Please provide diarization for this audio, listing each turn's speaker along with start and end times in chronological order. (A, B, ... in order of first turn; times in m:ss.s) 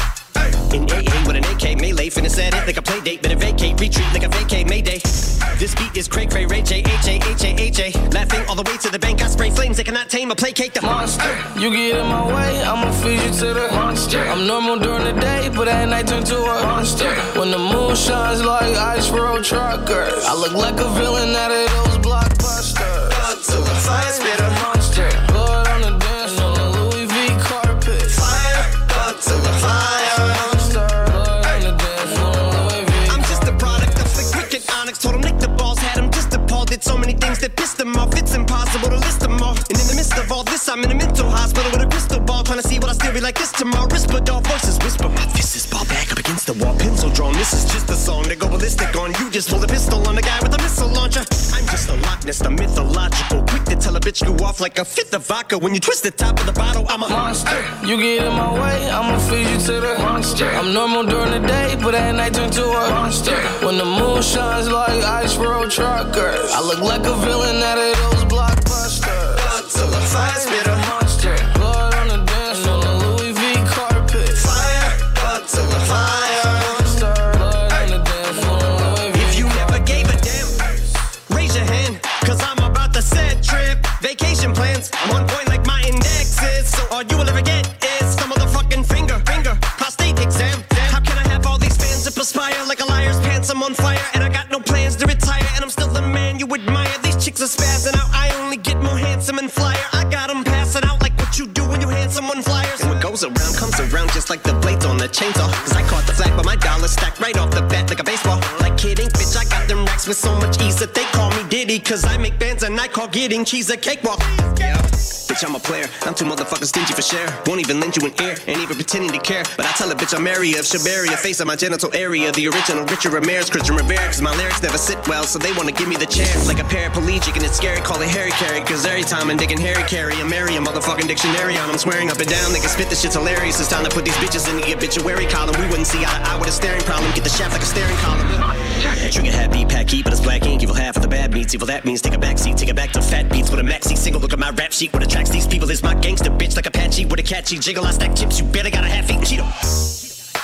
0:00.5-0:11.2 A
0:10.8-0:28.3 B
0:23.1-0:24.6 A
0:28.1-0:30.8 A
0:29.6-0:33.8 B
0:33.1-0:57.7 A
0:57.0-1:14.5 B
1:09.4-1:11.0 A
1:14.4-1:16.9 A
1:16.5-1:20.1 B
1:19.1-2:29.6 A